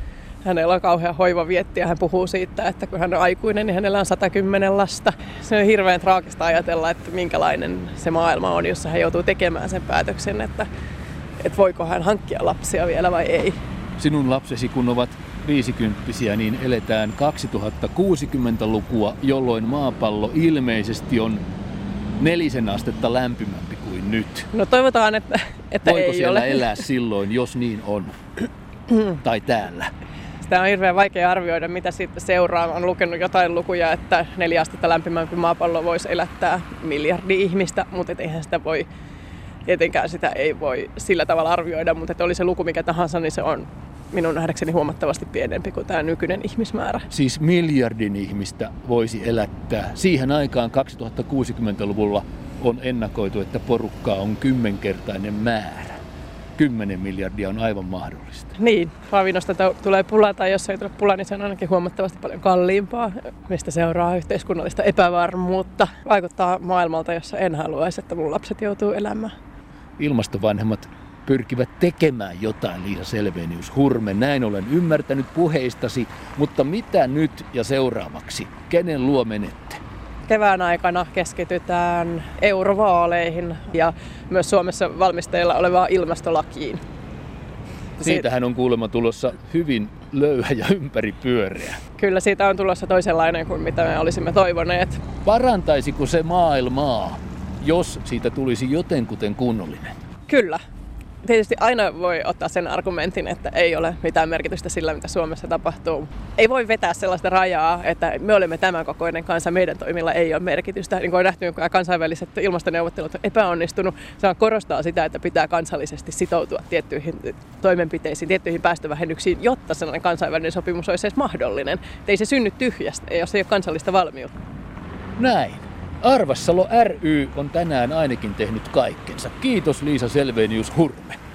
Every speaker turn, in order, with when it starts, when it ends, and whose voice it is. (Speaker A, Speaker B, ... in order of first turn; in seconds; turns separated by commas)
Speaker A: 0.4-10.7, Speaker A: 11.4-13.6, Speaker B: 14.0-21.4, Speaker B: 22.2-24.5, Speaker A: 24.5-26.8, Speaker B: 25.8-28.1, Speaker B: 29.1-29.9, Speaker A: 30.4-38.9, Speaker A: 39.6-47.0, Speaker B: 47.1-56.0, Speaker B: 56.5-58.5, Speaker A: 58.6-69.3, Speaker B: 70.0-79.8, Speaker A: 80.3-86.8, Speaker B: 88.0-91.8, Speaker A: 92.0-95.0, Speaker B: 95.2-99.9, Speaker A: 100.3-100.6, Speaker A: 101.2-124.3, Speaker B: 125.2-131.2